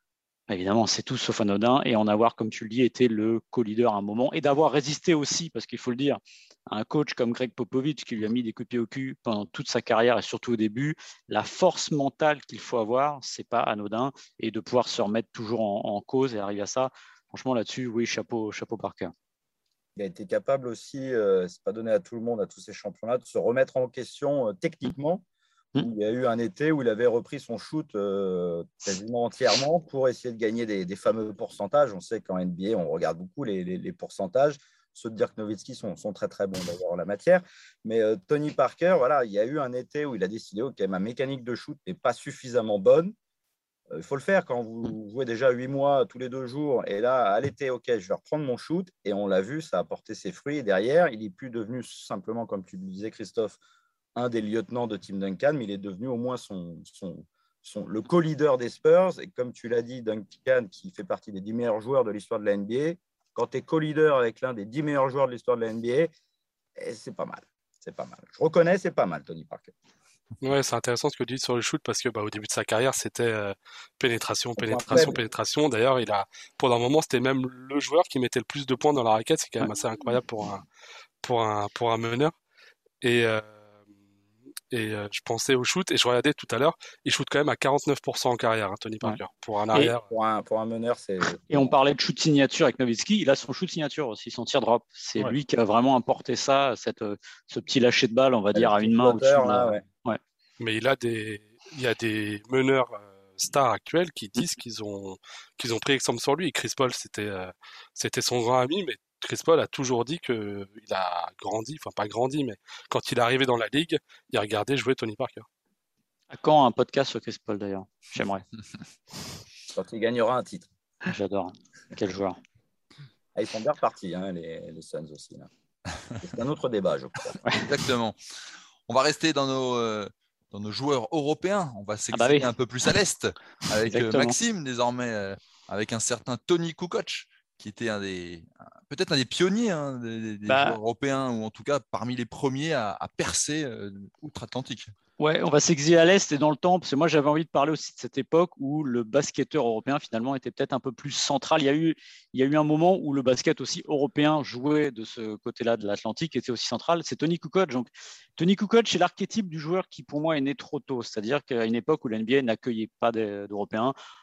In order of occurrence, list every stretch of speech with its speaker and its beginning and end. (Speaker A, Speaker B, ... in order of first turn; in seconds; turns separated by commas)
Speaker A: 0.5-19.1, Speaker B: 19.9-25.2, Speaker B: 25.8-43.1, Speaker B: 43.9-53.6, Speaker B: 54.1-66.1, Speaker B: 66.8-69.7, Speaker C: 70.4-80.6, Speaker B: 74.6-75.2, Speaker C: 81.2-82.3, Speaker C: 83.0-83.5, Speaker C: 84.7-90.0, Speaker B: 89.8-91.7, Speaker A: 91.5-100.2, Speaker B: 98.5-99.8, Speaker C: 100.6-115.5, Speaker A: 116.3-118.4, Speaker B: 119.7-120.7, Speaker A: 121.0-122.4, Speaker B: 123.3-125.5, Speaker B: 126.2-127.5, Speaker D: 127.5-128.2, Speaker D: 128.9-144.9, Speaker A: 132.1-132.5, Speaker A: 133.9-134.4, Speaker A: 140.4-140.8, Speaker A: 145.2-163.9